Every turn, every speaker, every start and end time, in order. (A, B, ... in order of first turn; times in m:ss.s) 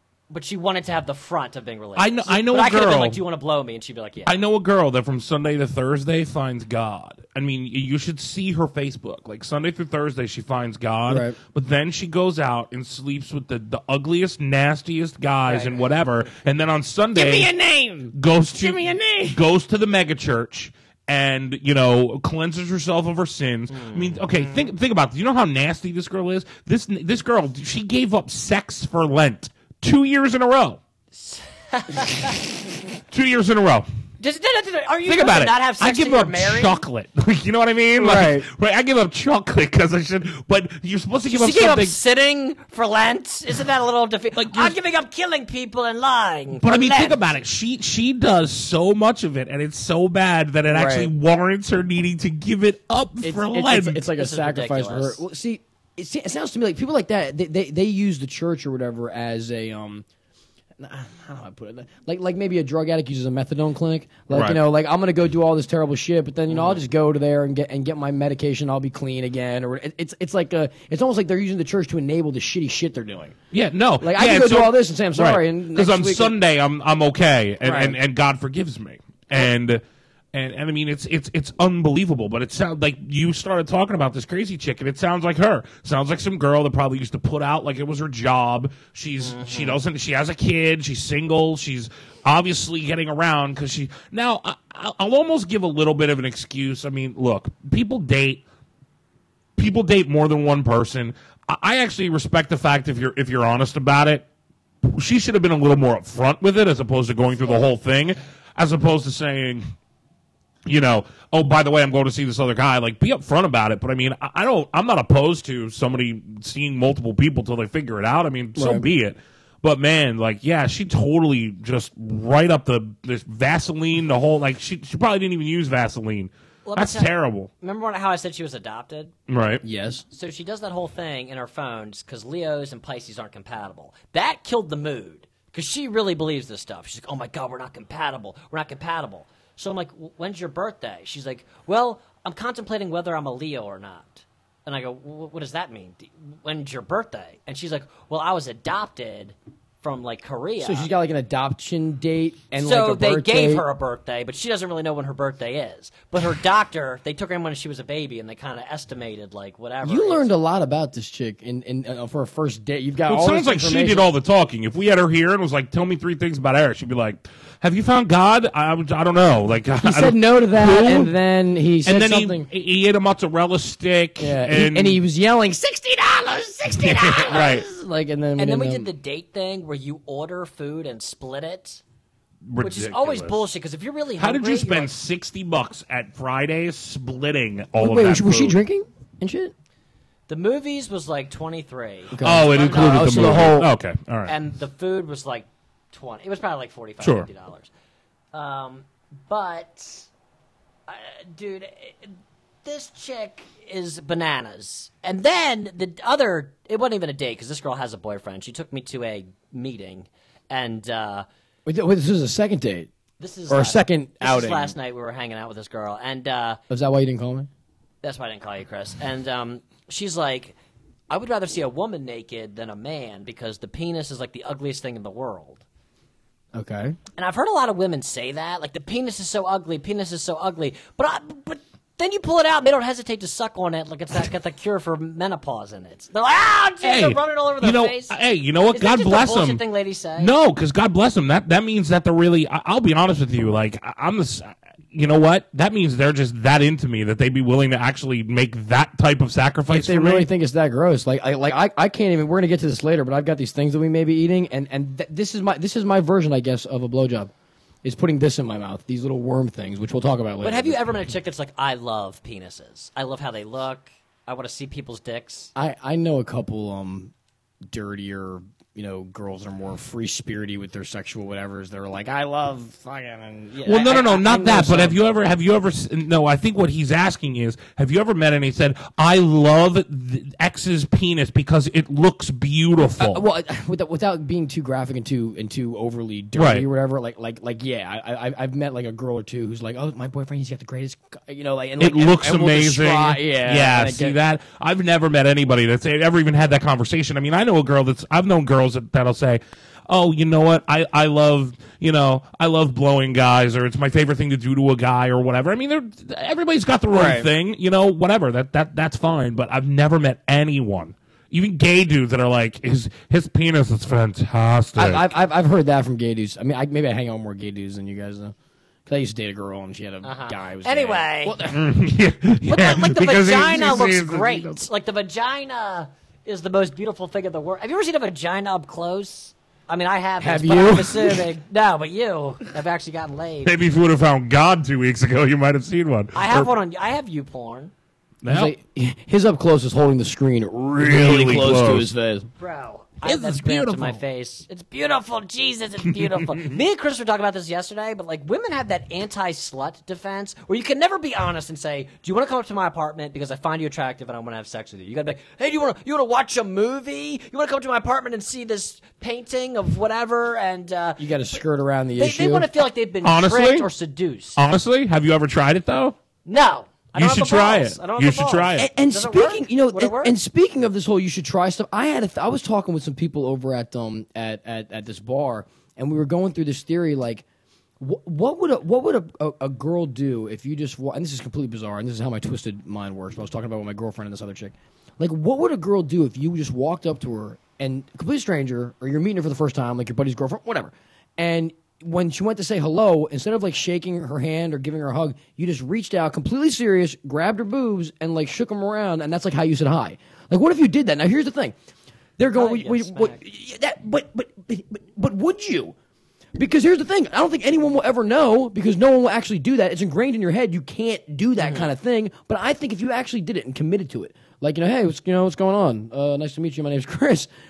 0:00.3-0:04.3 A
0:02.0-0:03.2 B
0:04.3-0:17.6 B
0:11.1-0:11.4 C
0:17.2-0:19.4 C
0:18.1-0:30.8 B
0:23.7-0:24.7 A
0:31.1-0:32.4 A
0:33.1-0:33.9 B
0:34.2-0:36.8 A
0:35.1-0:42.0 B
0:38.0-0:38.5 C
0:41.3-0:47.3 A
0:44.4-0:44.8 B
0:46.6-0:54.0 B
0:50.7-0:51.1 C
0:53.2-1:00.0 C
0:54.2-0:55.2 A
1:00.8-1:13.4 C
1:04.3-1:04.6 B
1:13.5-1:19.8 B
1:14.0-1:16.3 C
1:17.6-1:18.0 C
1:20.3-1:38.4 B
1:29.2-1:29.8 A
1:39.6-1:44.3 B
1:44.8-1:49.7 B
1:50.7-2:07.5 B
1:58.6-1:58.8 C
2:06.7-2:09.1 A
2:09.3-2:09.6 B
2:09.6-2:10.0 C
2:10.1-2:30.9 A
2:30.6-2:33.6 C
2:32.6-2:40.3 A
2:39.8-2:44.1 C
2:43.1-2:51.1 B
2:49.8-2:52.5 C
2:51.8-2:55.0 B
2:54.2-2:58.9 C
2:56.8-2:57.6 B
2:58.4-3:01.8 A
3:02.5-3:03.4 B
3:02.6-3:04.9 A
3:04.2-3:08.6 B
3:07.8-3:09.5 C
3:10.3-3:13.6 A
3:12.1-3:13.7 C
3:12.2-3:14.3 B
3:14.3-3:17.7 A
3:17.0-3:17.3 B
3:18.3-3:20.1 A
3:20.9-3:22.1 A
3:22.6-3:31.3 A
3:31.7-3:32.9 C
3:33.2-3:36.6 A
3:33.5-3:34.8 C
3:36.7-3:37.5 C
3:38.0-3:40.6 A
3:41.1-3:45.6 A
3:46.5-3:47.0 C
3:47.2-3:58.2 A
3:56.8-3:59.6 B
3:58.7-4:00.3 A
4:00.2-4:10.3 B
4:09.7-4:17.3 C
4:17.8-4:20.8 C
4:20.4-4:25.5 A
4:25.6-4:27.1 C
4:27.7-4:35.0 C
4:33.6-4:43.2 B
4:33.8-4:34.1 A
4:43.0-4:54.2 C
4:46.4-4:46.6 B
4:51.8-5:15.1 B
5:06.9-5:07.3 C
5:14.8-5:18.3 C
5:18.9-5:21.8 C
5:20.0-5:21.4 A
5:21.5-5:24.7 B
5:22.5-5:33.6 A
5:30.2-5:31.2 C
5:33.4-5:36.5 B
5:36.1-5:37.7 A
5:38.2-5:38.5 B
5:38.3-5:42.3 C
5:40.8-5:41.9 B
5:42.4-6:01.1 A
5:43.0-5:44.0 B
6:01.0-6:02.5 C
6:02.0-6:04.4 A
6:03.0-6:03.7 B
6:04.4-6:06.0 B
6:06.3-6:10.2 A
6:07.0-6:08.7 B
6:08.6-6:17.2 C
6:17.8-6:41.6 C
6:42.2-6:45.8 C
6:42.3-6:43.2 A
6:46.4-6:57.3 C
6:51.4-6:51.7 A